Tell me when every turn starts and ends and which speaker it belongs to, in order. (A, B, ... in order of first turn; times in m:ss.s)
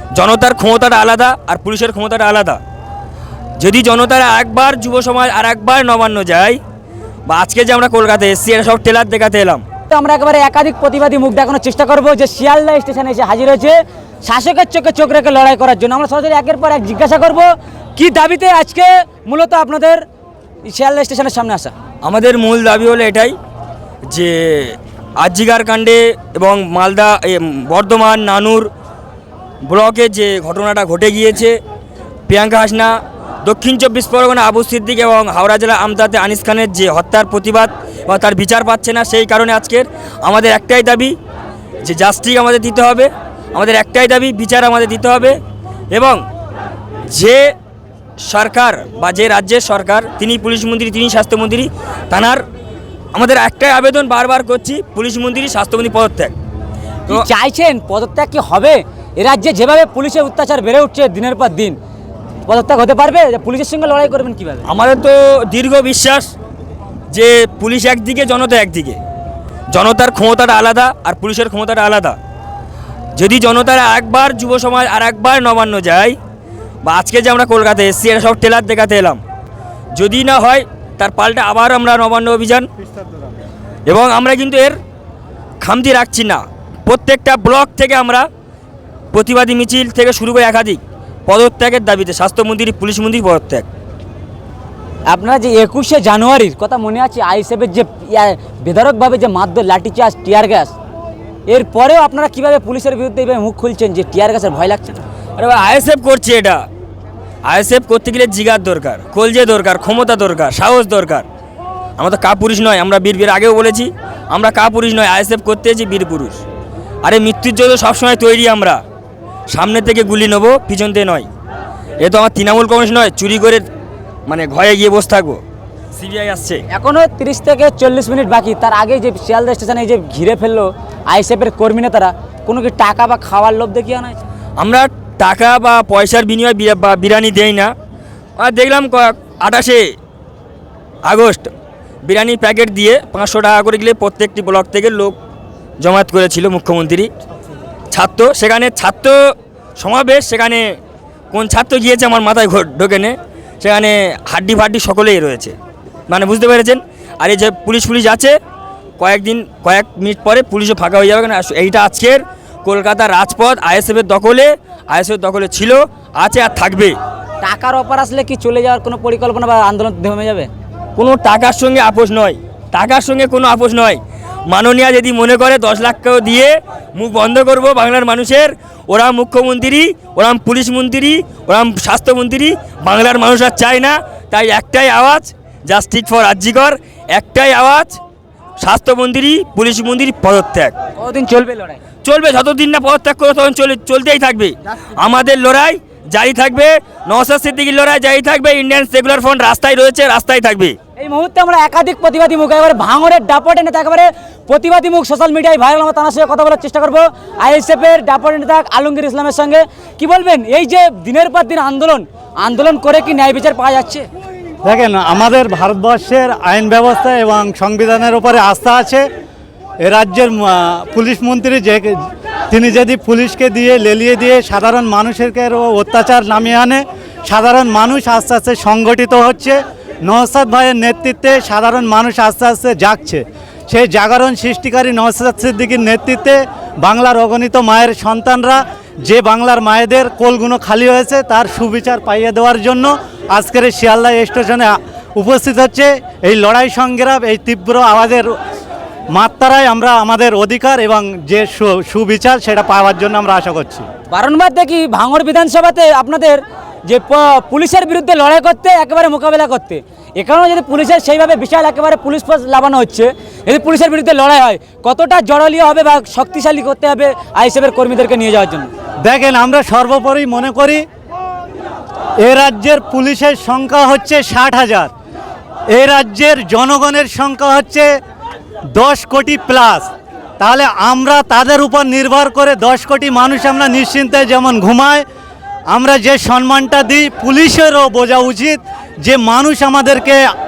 0:00.2-0:02.6 A
0:03.6-0:06.6 A
0:07.3-0:09.6 A
0:09.9-0:20.0 B
0:20.7-0:21.7 B
0:22.0-0:23.4 A
0:24.1-0:28.7 A
0:29.6-0:31.6 A
0:32.3-0:41.1 A
0:41.8-0:45.4 A
0:45.9-0:46.2 A
0:47.1-0:47.5 A
0:48.2-0:52.4 A
0:53.1-0:56.3 A
0:57.1-1:01.8 B
1:02.5-1:04.6 B
1:04.6-1:06.3 A
1:07.1-1:09.0 A
1:09.7-1:12.2 A
1:13.1-1:16.2 A
1:16.8-1:19.2 A
1:19.9-1:22.7 A
1:23.9-1:24.8 A
1:25.6-1:28.3 A
1:29.1-1:33.7 A
1:35.1-1:40.7 B
1:41.5-1:45.0 B
1:45.4-1:46.6 A
1:47.4-1:51.2 A
1:52.0-1:56.4 A
1:57.0-1:58.8 A
1:59.5-2:01.3 A
2:02.0-2:03.6 A
2:04.3-2:05.4 A
2:05.9-2:06.6 A
2:06.7-2:14.2 B
2:14.6-2:17.7 A
2:18.4-2:19.9 A
2:21.0-2:21.5 A
2:22.0-2:25.2 A
2:25.8-2:27.1 A
2:27.9-2:30.8 A
2:31.3-2:35.6 A
2:36.1-2:38.4 A
2:39.0-2:47.0 A
2:47.4-2:50.5 B
2:51.0-3:08.0 A
3:08.6-3:10.7 A
3:11.0-3:11.8 B
3:12.0-3:20.8 A
3:21.0-3:34.1 B
3:34.6-3:39.0 C
3:39.8-4:08.3 C
4:09.1-4:13.8 C
4:14.1-4:28.7 B
4:29.0-4:30.8 C
4:32.2-4:34.9 C
4:35.7-4:37.9 C
4:38.7-4:45.0 C
4:45.7-4:50.2 C